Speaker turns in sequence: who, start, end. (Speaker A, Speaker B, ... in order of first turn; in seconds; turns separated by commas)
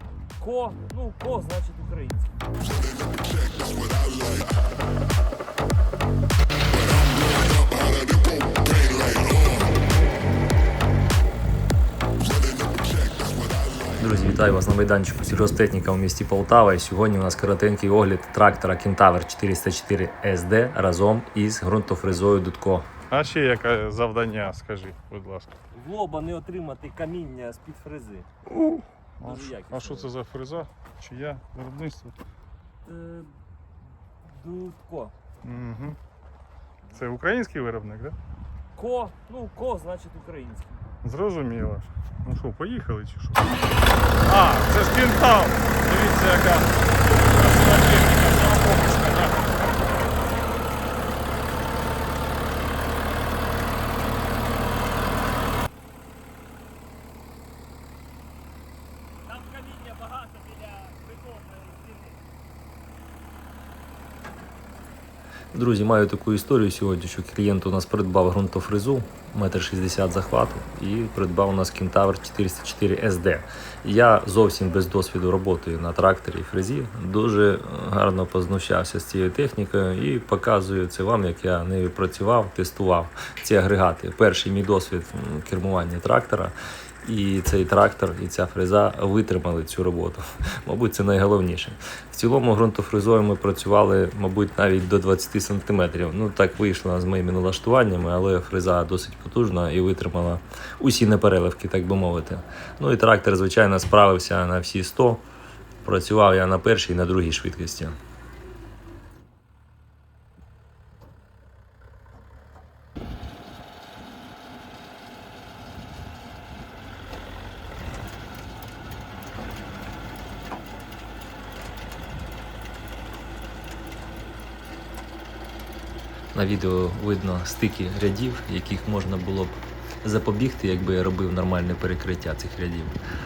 Speaker A: 0.4-2.4, Speaker B: 13.9-22.9, Speaker C: 23.1-25.5, Speaker A: 25.7-28.3, Speaker C: 28.5-32.2, Speaker A: 29.2-30.1, Speaker A: 32.9-33.4, Speaker A: 34.2-35.1, Speaker C: 35.4-36.0, Speaker C: 36.9-38.2, Speaker A: 38.8-40.8, Speaker C: 41.0-43.5, Speaker C: 44.2-49.6, Speaker A: 59.3-62.2, Speaker B: 65.5-105.2, Speaker B: 105.8-108.0, Speaker B: 126.3-133.0